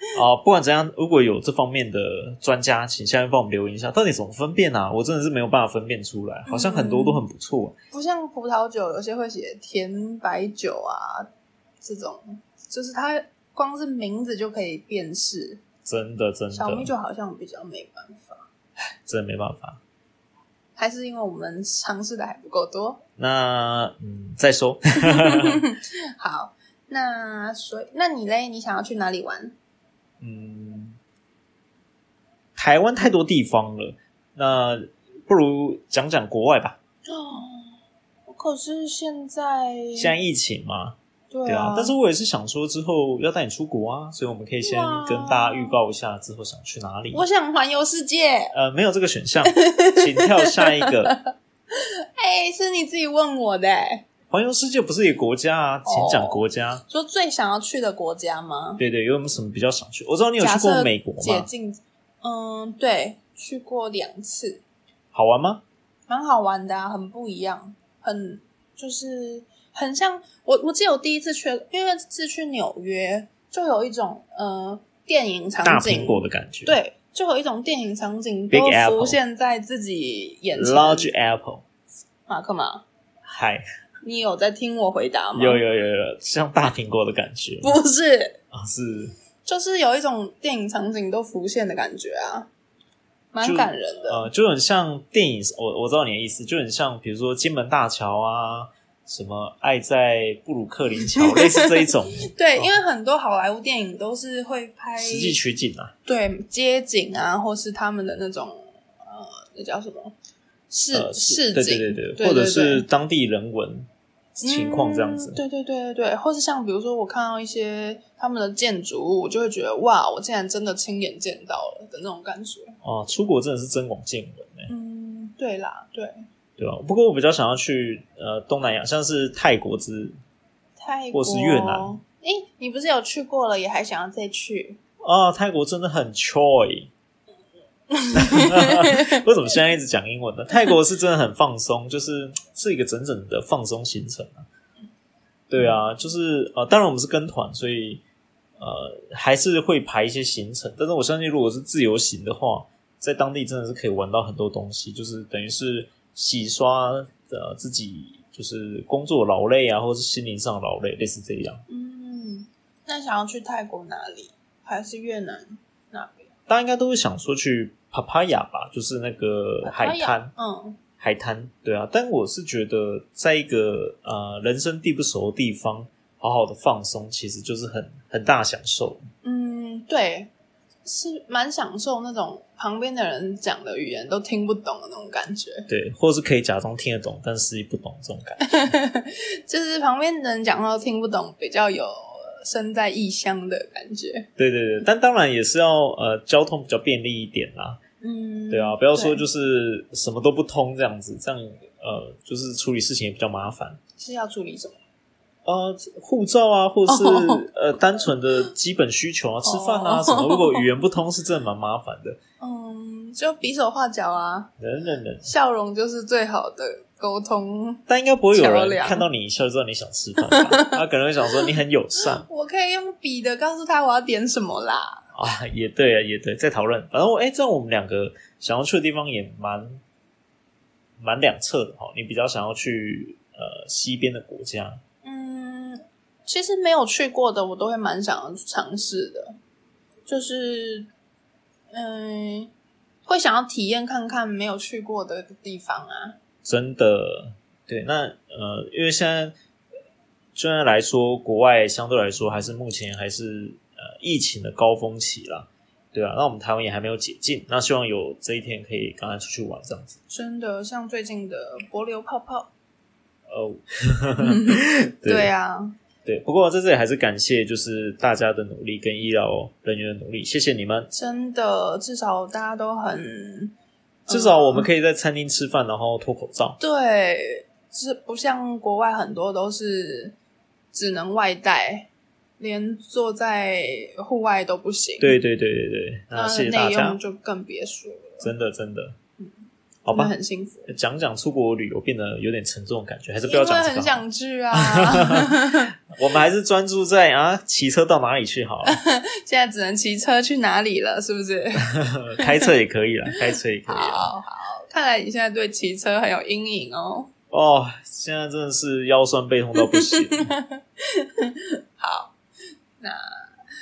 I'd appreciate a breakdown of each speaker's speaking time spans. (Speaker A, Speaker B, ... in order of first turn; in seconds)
Speaker A: 0.1-7.7, 15.8-16.9, 19.0-19.8, 23.2-25.6, 30.2-31.0, 32.5-36.8, 40.0-47.2, 48.5-51.1, 54.3-56.8, 58.8-61.5, 65.1-65.6, 75.6-76.8, 78.5-79.2, 80.5-81.6, 83.2-83.6, 85.3-87.8, 88.5-89.1, 93.4-102.8, 105.0-105.9, 110.9-113.9, 114.4-115.4, 122.8-124.7, 126.6-130.2, 131.1-132.0, 135.0-136.9, 138.2-144.4, 145.5-148.0, 148.6-161.6, 166.5-170.3, 171.0-179.0, 185.7-188.7, 194.4-197.8, 198.5-203.8, 205.4-212.2, 214.6-215.3, 217.9-222.2, 225.1-229.8, 231.0-234.8, 246.4-249.3, 250.3-260.0, 263.3-265.3, 266.0-270.9, 274.1-276.6, 285.0-287.0, 288.2-288.9, 289.8-290.1, 290.7-294.0, 294.5-295.3, 295.9-298.8, 301.6-304.1, 307.3-310.3
Speaker B: 6.5-7.2, 7.9-11.3, 11.8-15.6, 16.5-18.4, 20.8-23.0, 25.0-29.5, 37.1-40.1, 41.3-41.9, 44.6-45.8, 47.1-48.5, 49.4-51.2, 51.7-54.0, 55.9-58.8, 60.4-64.6, 66.1-81.1, 82.3-82.8, 84.0-85.6, 87.6-88.4, 89.5-92.5, 93.3-94.3, 101.2-105.4, 106.0-110.1, 110.7-112.8, 114.4-122.7, 124.7-126.2, 130.8-134.8, 137.9-139.2, 161.7-166.3, 169.6-170.8, 179.2-180.3, 180.8-185.7, 188.4-194.3, 198.0-199.2, 204.0-204.8, 206.9-207.5, 209.4-210.7, 212.4-214.5, 215.2-219.1, 220.2-220.8, 222.0-225.0, 235.0-239.3, 240.1-240.9, 241.7-242.5, 243.1-246.2, 260.1-262.5, 264.2-265.7, 270.9-273.5, 274.1-274.7, 276.6-280.1, 280.7-281.9, 282.4-285.2, 286.1-288.3, 289.9-290.7, 293.2-295.7, 298.6-302.5, 303.7-307.1, 309.6-312.1, 312.8-313.2